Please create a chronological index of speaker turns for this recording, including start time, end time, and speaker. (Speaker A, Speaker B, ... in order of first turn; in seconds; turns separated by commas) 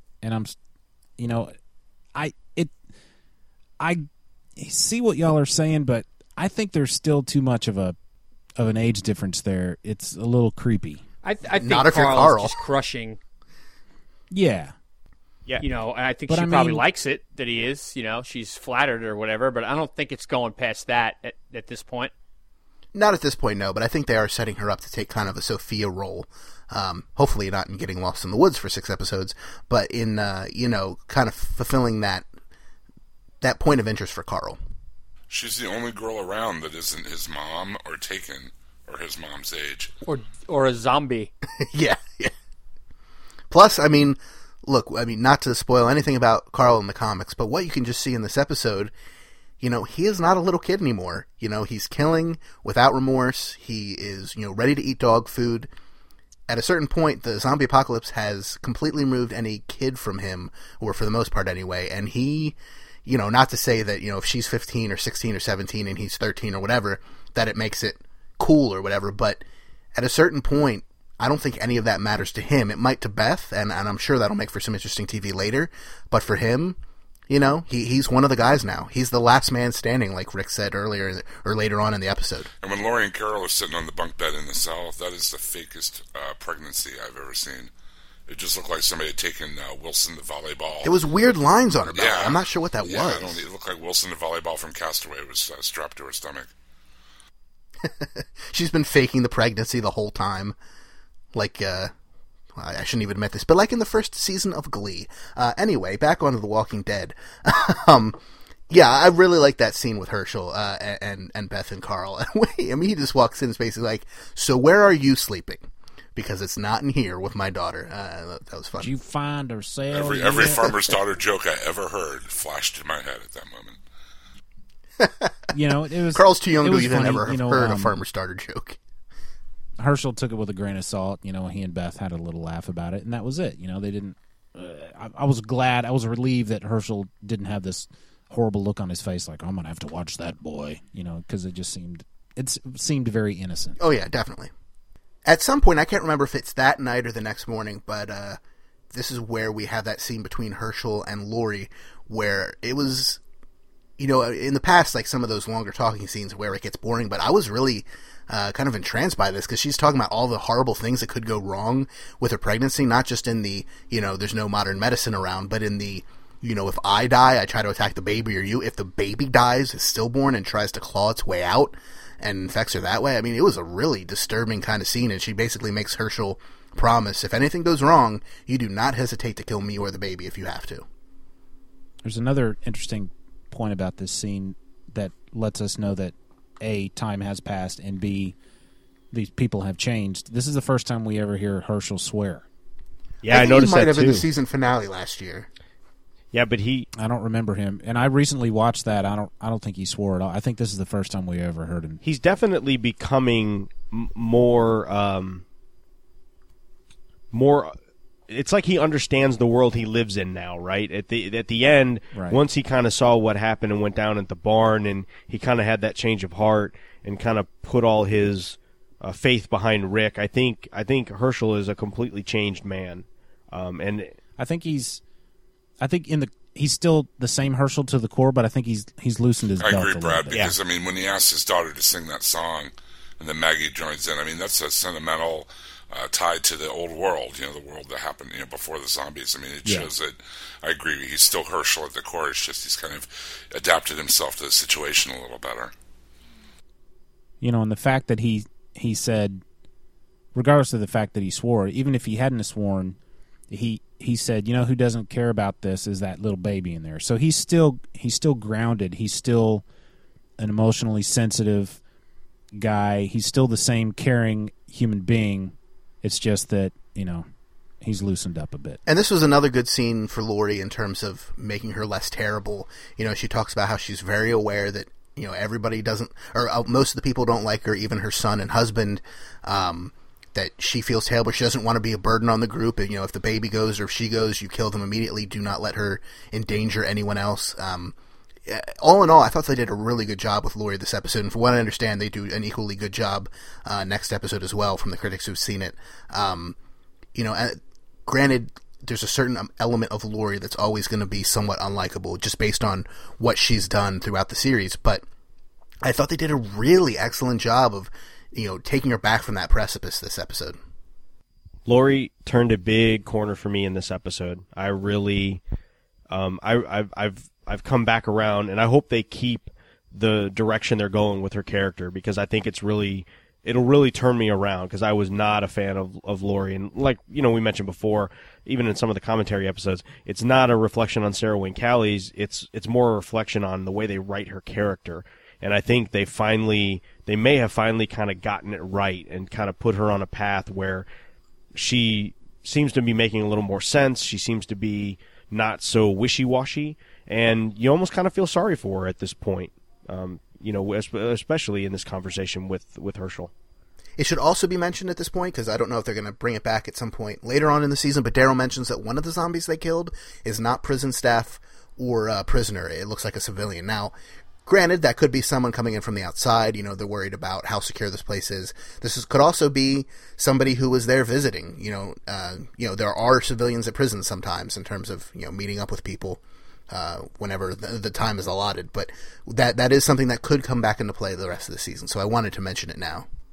Speaker A: 0.2-0.6, Speaker A: 1.2-1.5, Speaker A: 2.1-2.7, Speaker A: 4.6-8.0, Speaker A: 8.6-11.0, Speaker B: 11.2-13.2, Speaker C: 11.5-12.6, Speaker A: 14.3-14.7, Speaker B: 15.6-22.1, Speaker A: 16.3-16.8, Speaker C: 22.9-32.2, Speaker C: 33.4-34.6, Speaker D: 35.3-40.0, Speaker B: 40.0-41.3, Speaker C: 41.6-42.3, Speaker C: 43.5-48.9, Speaker C: 49.6-55.7, Speaker C: 56.5-69.4, Speaker C: 69.9-76.8, Speaker C: 77.3-82.5, Speaker D: 82.6-87.7, Speaker D: 88.3-90.9, Speaker C: 90.8-93.4, Speaker D: 91.9-96.5, Speaker C: 97.8-100.5, Speaker C: 101.3-101.9, Speaker C: 102.5-118.9, Speaker A: 118.8-120.7, Speaker D: 119.9-123.8, Speaker C: 125.0-125.5, Speaker A: 125.5-127.9, Speaker C: 126.1-128.8, Speaker A: 129.8-143.8, Speaker C: 143.8-144.5, Speaker C: 145.2-148.4, Speaker C: 148.9-153.2, Speaker C: 154.0-180.8, Speaker A: 182.0-188.3, Speaker A: 189.1-192.4, Speaker E: 193.2-194.2, Speaker C: 193.3-195.5, Speaker E: 196.3-196.9, Speaker A: 196.9-202.0, Speaker E: 202.0-205.4, Speaker E: 207.3-207.7, Speaker E: 208.3-224.1, Speaker A: 224.4-225.0, Speaker A: 225.8-230.4, Speaker D: 229.6-245.7, Speaker E: 230.3-230.6, Speaker A: 239.6-239.9, Speaker A: 247.4-249.4, Speaker A: 250.3-253.0, Speaker A: 253.5-259.6, Speaker A: 260.4-261.8, Speaker A: 262.5-267.2, Speaker A: 267.8-268.8, Speaker C: 268.9-287.9, Speaker C: 288.4-296.6, Speaker C: 297.1-305.0, Speaker C: 305.8-310.6, Speaker E: 311.6-315.4, Speaker E: 316.1-340.8, Speaker E: 341.5-353.3, Speaker C: 354.0-363.9, Speaker C: 364.4-376.2, Speaker C: 376.7-383.1